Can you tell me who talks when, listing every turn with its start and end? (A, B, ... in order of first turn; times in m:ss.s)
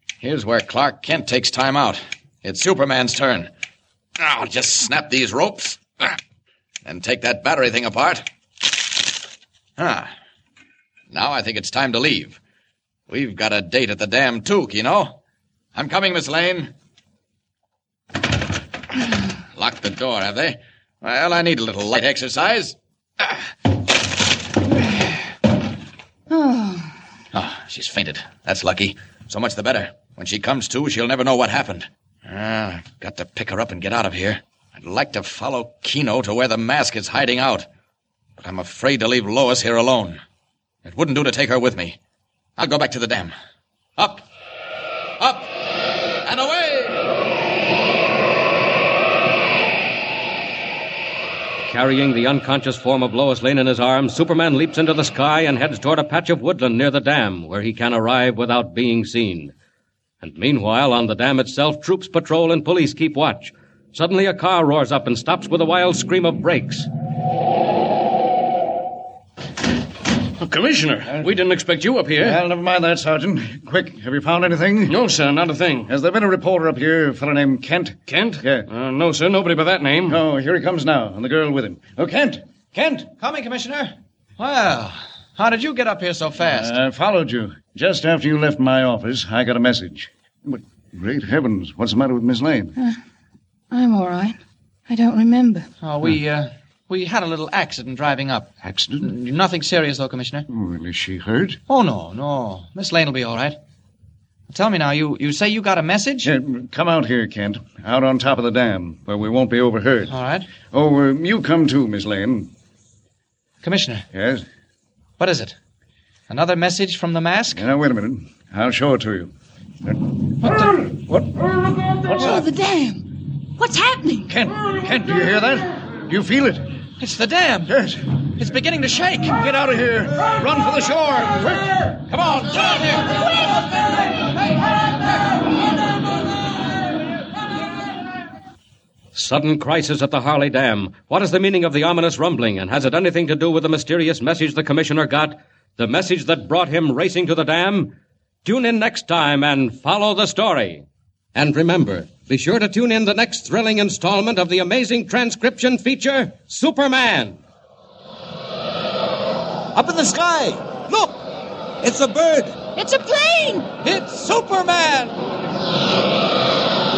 0:00.2-0:03.5 A
0:04.2-0:06.2 A
0:06.8-0:08.2 A
0:09.8-0:10.1 A
0:11.1-0:12.4 A
0:13.1-0:15.1 A
0:15.8-0:16.7 A
0:19.6-0:22.7 A
0:26.3-0:26.9 B
0:27.3-0:37.6 A
0:38.4-0:40.2 A
0:40.8-0:42.0 A
0:42.6-0:43.3 A
0:45.2-0:45.5 A
0:46.2-0:46.9 A
0:51.7-0:59.5 C
1:00.2-1:06.9 C
1:10.4-1:12.3 D
1:12.2-1:15.0 E
1:14.9-1:15.8 D
1:15.9-1:18.7 E
1:18.1-1:20.2 D
1:20.1-1:23.1 E
1:23.2-1:26.7 A
1:26.4-1:32.8 E
1:33.7-1:34.4 B
1:34.9-1:35.7 B
1:35.8-1:40.4 A
1:38.6-1:39.1 E
1:40.5-1:41.6 E
1:41.7-1:43.6 A
1:44.5-1:46.3 A
1:46.2-1:52.5 E
1:50.1-1:50.5 A
1:53.6-1:54.0 A
1:54.1-1:54.4 E
1:55.2-1:55.5 A
1:56.3-1:57.6 A
1:57.5-1:59.3 E
2:00.4-2:00.8 A
2:00.9-2:02.4 E
2:02.2-2:04.3 B
2:04.3-2:06.7 E
2:07.0-2:07.7 A
2:07.7-2:08.0 E
2:08.4-2:09.3 A
2:09.3-2:12.6 E
2:19.1-2:37.4 C
2:42.8-2:43.7 B
2:43.9-2:44.3 A